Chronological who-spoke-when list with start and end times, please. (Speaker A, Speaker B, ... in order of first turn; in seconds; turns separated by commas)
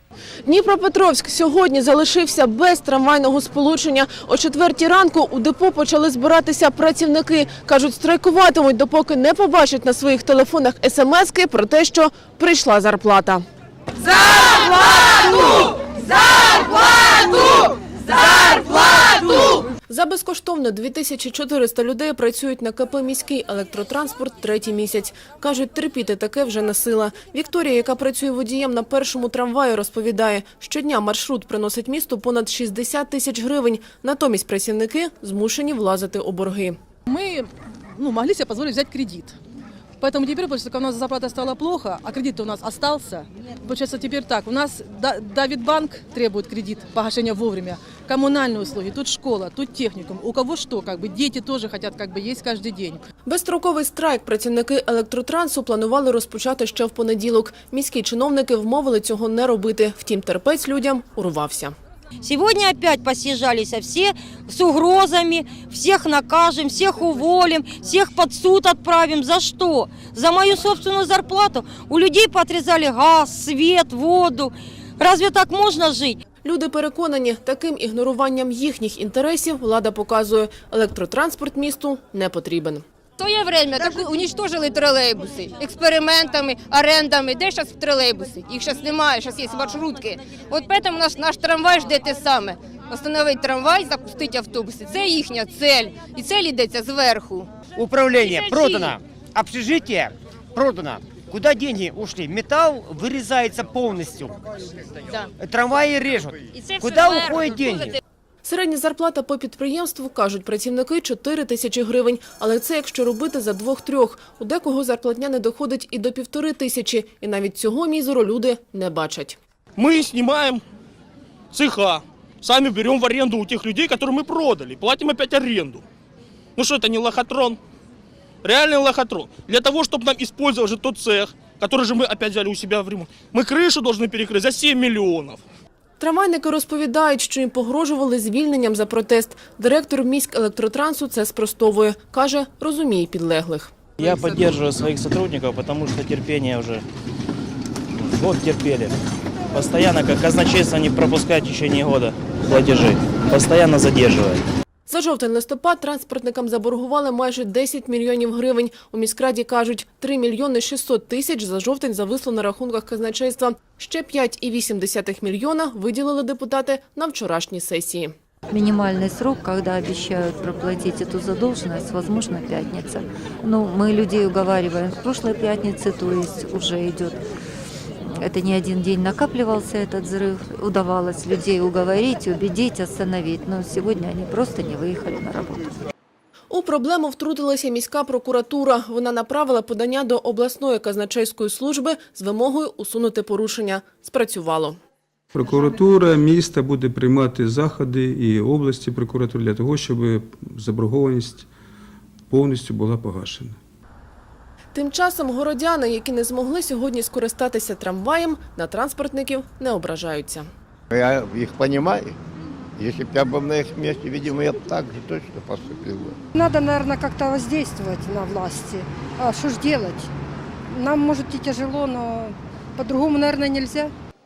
Speaker A: 0.5-13.4, Speaker A: 14.0-36.8, Speaker B: 37.1-39.4, Speaker B: 40.0-53.0, Speaker A: 53.3-61.7, Speaker C: 62.2-76.2, Speaker A: 76.4-82.8, Speaker D: 83.2-97.7, Speaker E: 97.7-104.4, Speaker D: 98.2-98.9, Speaker E: 105.4-108.0, Speaker D: 106.5-107.9, Speaker A: 108.4-119.4, Speaker F: 119.8-120.6, Speaker F: 121.5-125.8, Speaker F: 126.6-127.6, Speaker F: 128.4-135.4, Speaker A: 136.0-143.7, Speaker G: 144.0-146.8, Speaker G: 148.0-148.9, Speaker G: 149.5-154.4, Speaker A: 154.9-168.1, Speaker H: 168.5-177.2, Speaker H: 178.0-185.7, Speaker A: 186.5-194.8, Speaker I: 195.3-201.5, Speaker I: 202.3-203.6, Speaker A: 204.7-210.5, Speaker J: 210.9-212.2, Speaker J: 212.8-216.2, Speaker K: 216.4-220.1, Speaker K: 220.7-223.9